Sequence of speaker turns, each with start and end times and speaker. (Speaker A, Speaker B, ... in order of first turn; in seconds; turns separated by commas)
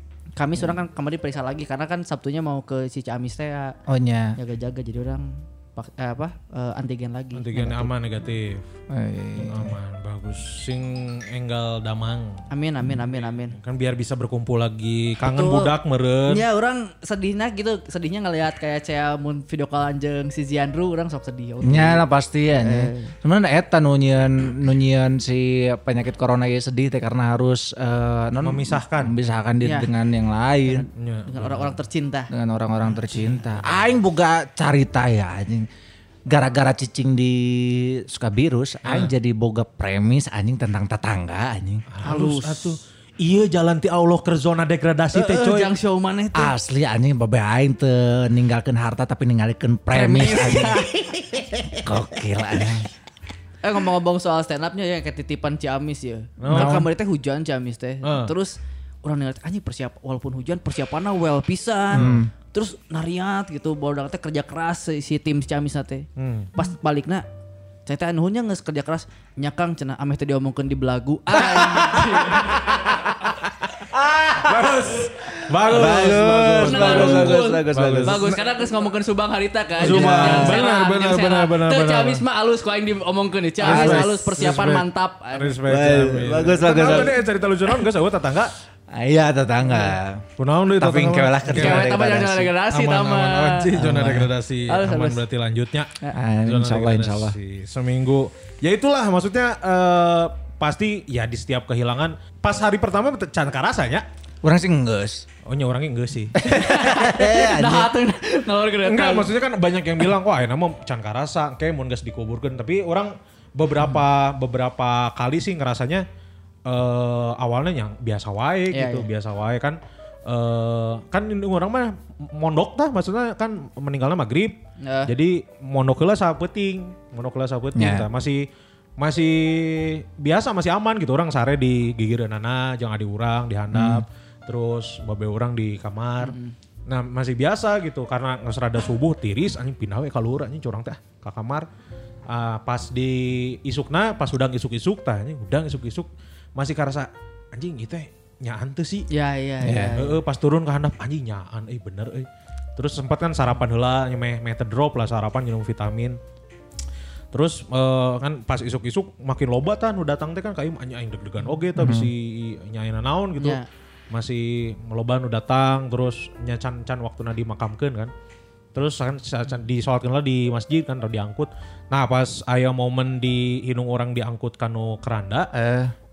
Speaker A: 0.4-3.8, Speaker B: 3.9-4.4, Speaker A: 4.4-7.9, Speaker C: 7.3-8.7, Speaker B: 8.9-9.8, Speaker C: 9.4-12.4, Speaker A: 12.5-13.6, Speaker C: 13.5-16.4, Speaker A: 15.2-15.7, Speaker A: 16.3-22.0, Speaker B: 21.6-30.9, Speaker A: 22.6-23.1, Speaker C: 28.4-29.1, Speaker A: 29.6-29.9, Speaker A: 30.7-32.3, Speaker C: 31.0-31.8, Speaker B: 32.3-35.7, Speaker B: 36.3-41.9, Speaker C: 38.9-39.1, Speaker C: 41.9-45.7, Speaker A: 42.0-42.8, Speaker A: 45.1-46.5, Speaker B: 46.4-50.8, Speaker A: 49.9-51.2, Speaker B: 51.8-52.9, Speaker A: 53.6-67.2, Speaker C: 56.4-56.8, Speaker B: 56.5-56.9, Speaker C: 58.0-58.3, Speaker B: 61.9-62.3, Speaker C: 62.0-62.2, Speaker C: 66.2-66.5, Speaker A: 67.9-72.9, Speaker C: 72.0-73.4, Speaker B: 73.9-75.0, Speaker C: 74.4-78.4, Speaker B: 75.7-78.2, Speaker A: 76.6-85.6, Speaker B: 79.8-80.6, Speaker C: 79.8-82.2, Speaker C: 83.6-88.5, Speaker B: 83.6-84.2, Speaker B: 85.7-87.2, Speaker A: 86.8-87.0, Speaker B: 88.9-90.3, Speaker C: 90.4-91.9, Speaker B: 90.8-92.5, Speaker A: 91.5-93.7, Speaker C: 92.7-95.9, Speaker B: 93.8-94.3, Speaker A: 94.7-95.2, Speaker B: 96.2-97.4, Speaker C: 96.4-104.1, Speaker B: 104.4-105.3, Speaker C: 105.5-106.4, Speaker B: 106.4-107.9, Speaker A: 106.4-109.3, Speaker C: 108.8-116.1, Speaker C: 116.7-124.6, Speaker A: 118.7-119.1, Speaker A: 124.8-125.1, Speaker C: 125.1-128.5, Speaker B: 127.8-128.1, Speaker C: 129.0-136.4, Speaker B: 133.7-134.1, Speaker A: 136.2-136.5, Speaker C: 136.9-141.7, Speaker C: 142.3-149.1, Speaker A: 149.1-150.2, Speaker B: 149.6-150.0, Speaker C: 149.9-156.2, Speaker C: 157.3-168.1, Speaker B: 161.8-162.1, Speaker A: 163.4-163.7, Speaker C: 168.8-175.5, Speaker B: 175.5-175.9